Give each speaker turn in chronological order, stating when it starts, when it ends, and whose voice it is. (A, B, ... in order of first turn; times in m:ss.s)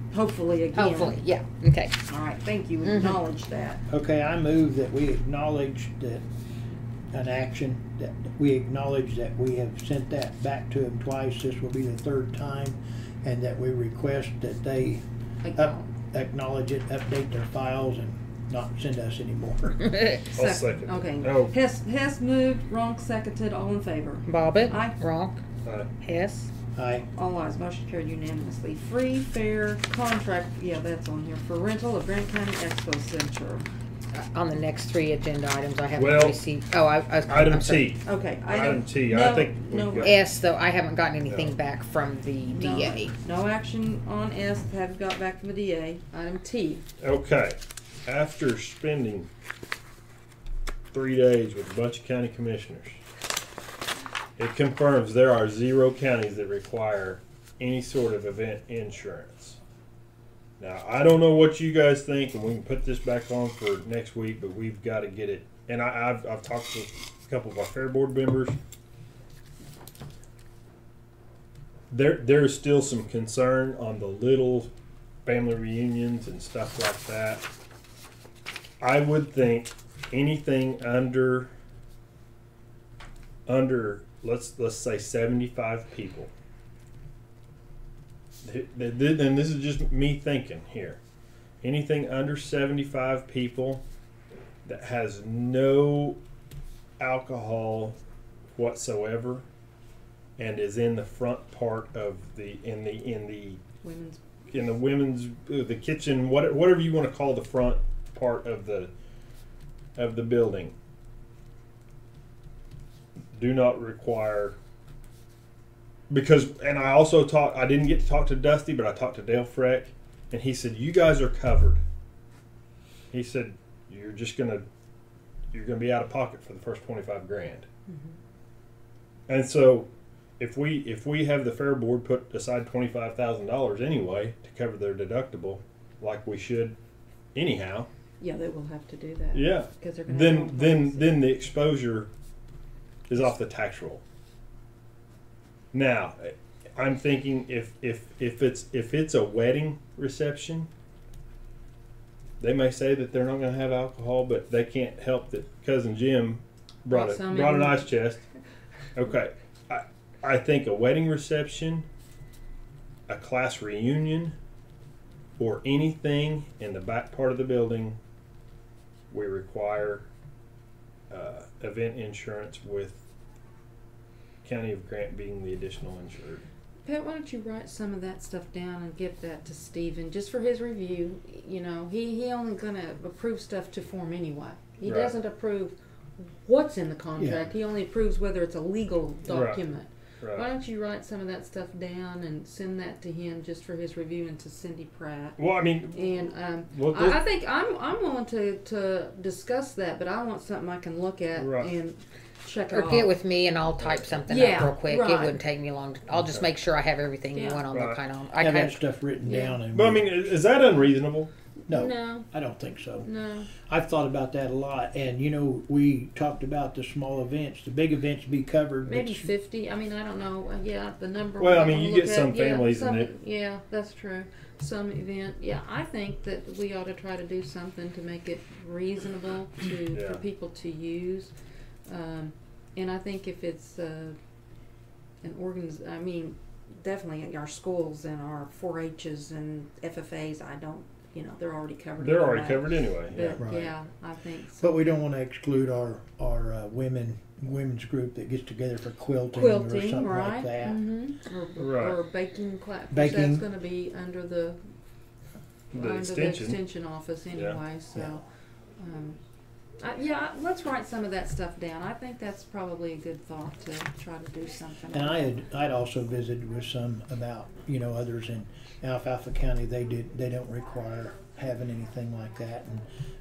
0:00.1-0:01.2 A
0:00.7-0:02.0 B
0:02.1-0:03.8 A
0:02.8-0:03.2 B
0:03.9-0:06.2 C
0:07.1-0:15.0 C
0:15.4-0:15.9 A
0:15.5-0:19.8 C
0:19.8-0:20.2 B
0:20.3-0:25.0 A
0:20.3-0:21.6 D
0:24.2-0:25.4 B
0:25.6-0:25.9 D
0:26.0-0:26.5 B
0:26.7-0:27.1 C
0:27.1-0:33.7 A
0:34.1-0:37.9 B
0:36.0-0:36.4 D
0:37.3-0:40.2 D
0:38.0-0:40.2 A
0:40.0-0:43.1 B
0:41.2-0:41.6 D
0:42.5-0:46.8 A
0:47.0-0:49.3 D
0:50.9-0:53.0 D
0:54.4-0:59.6 D
1:00.6-1:08.6 D
1:11.9-1:14.7 D
1:15.2-1:17.5 D
1:18.8-1:21.5 D
1:23.4-1:26.3 D
1:28.4-1:31.0 D
1:31.6-1:33.8 D
1:34.6-1:36.2 D
1:37.0-1:38.0 D
1:38.5-1:39.5 D
1:40.4-1:43.6 D
1:43.8-1:44.2 A
1:44.5-1:48.9 D
1:50.0-1:50.7 D
1:53.3-1:54.6 D
1:56.1-2:01.8 D
2:03.1-2:04.6 D
2:05.5-2:07.6 D
2:07.9-2:08.1 A
2:09.3-2:16.8 D
2:17.3-2:17.9 D
2:18.2-2:21.2 A
2:19.3-2:22.1 D
2:23.1-2:24.0 D
2:25.7-2:30.7 D
2:32.4-2:38.2 D
2:36.9-2:37.9 A
2:38.9-2:41.9 D
2:43.1-2:44.4 D
2:45.4-2:48.0 D
2:49.1-2:50.0 D
2:51.1-2:53.0 D
2:54.4-2:56.4 D
2:56.8-3:05.8 A
3:04.8-3:05.2 D
3:06.4-3:15.4 A
3:07.2-3:07.5 C
3:09.3-3:09.6 D
3:10.2-3:10.4 D
3:15.4-3:17.2 D
3:15.9-3:23.1 A
3:21.3-3:21.7 D
3:22.7-3:28.8 B
3:23.8-3:24.1 D
3:24.3-3:25.4 A
3:26.1-3:26.5 D
3:27.3-3:27.6 A
3:27.7-3:28.0 D
3:28.4-3:30.1 C
3:29.2-3:29.6 A
3:29.7-3:31.3 D
3:31.7-3:32.3 A
3:31.7-3:39.3 C
3:33.0-3:33.5 A
3:38.8-3:51.3 A
3:41.4-3:43.1 D
3:49.9-3:50.2 D
3:51.8-3:54.2 A
3:55.2-4:04.7 A
4:02.0-4:03.4 D
4:03.4-4:03.7 C
4:04.6-4:10.8 C
4:09.3-4:14.6 A
4:11.6-4:12.0 D
4:12.9-4:13.4 C
4:15.7-4:16.6 D
4:15.7-4:18.2 A
4:17.3-4:17.6 D
4:18.8-4:19.2 A
4:19.8-4:25.4 A
4:24.9-4:32.8 C